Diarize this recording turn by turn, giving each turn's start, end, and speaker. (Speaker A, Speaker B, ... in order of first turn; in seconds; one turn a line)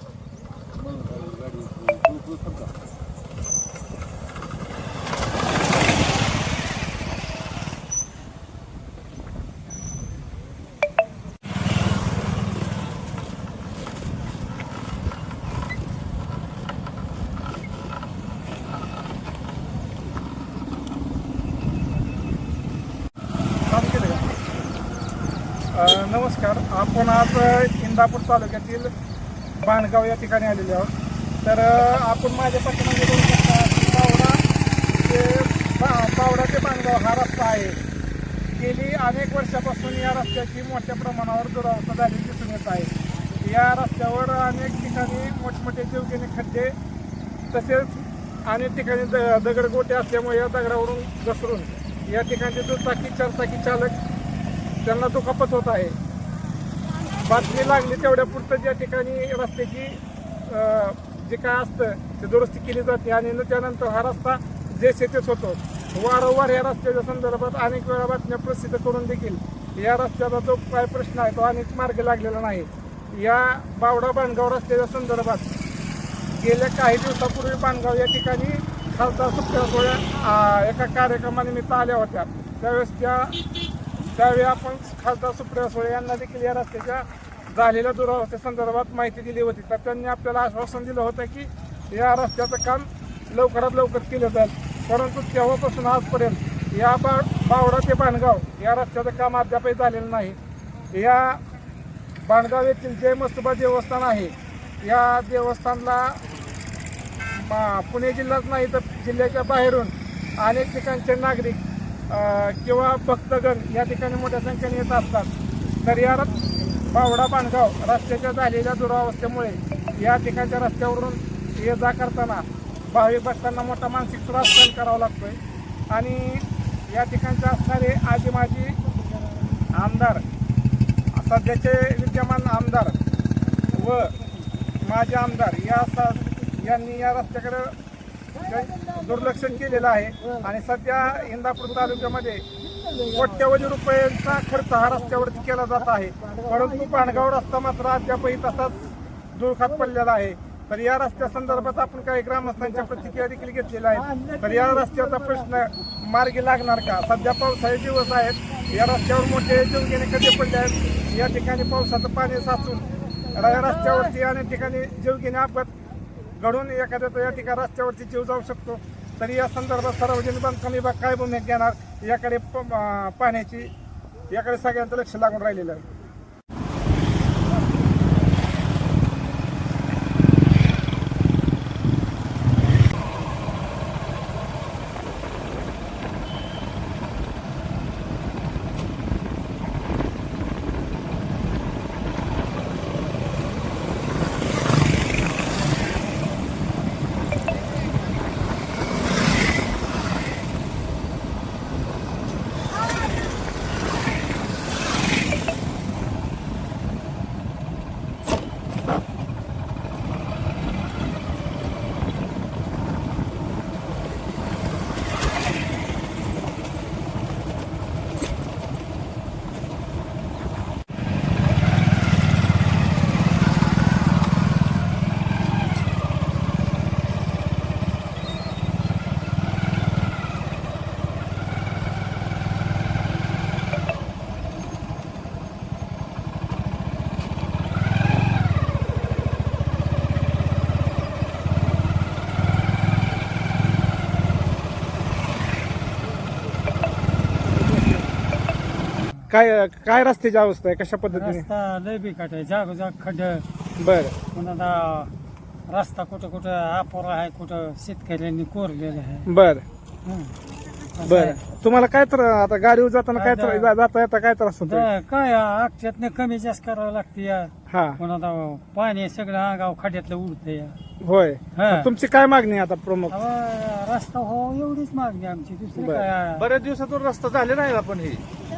Speaker A: 0.9-2.7
Speaker B: 23.7-24.3
Speaker B: 25.7-28.9
Speaker B: 29.6-30.9
Speaker B: 31.4-34.4
Speaker B: 35.0-37.8
Speaker B: 38.6-46.8
Speaker B: 47.5-54.0
Speaker B: 54.8-56.0
Speaker B: 57.2-75.5
Speaker B: 76.3-83.4
Speaker B: 84.1-100.4
Speaker B: 100.9-101.4
Speaker B: 102.2-106.2
Speaker B: 107.3-115.3
Speaker B: 115.8-125.4
Speaker B: 125.9-128.8
Speaker B: 129.7-130.2
Speaker B: 131.1-133.0
Speaker B: 133.7-134.2
Speaker B: 134.8-137.8
Speaker B: 138.4-142.4
Speaker B: 143.1-165.7
Speaker B: 166.4-173.7
Speaker B: 174.3-175.8
Speaker C: 248.9-249.3
Speaker B: 249.3-251.5
Speaker C: 251.1-253.4
Speaker B: 253.8-254.2
Speaker C: 254.3-255.1
Speaker C: 255.7-259.3
Speaker B: 259.3-259.6
Speaker C: 260.1-260.4
Speaker C: 261.0-261.4
Speaker B: 261.0-264.9
Speaker C: 263.2-263.7
Speaker C: 264.7-270.8
Speaker B: 267.7-268.0
Speaker B: 271.0-273.2
Speaker C: 271.6-271.9
Speaker C: 273.1-276.5
Speaker B: 275.8-276.1
Speaker A: 276.4-278.2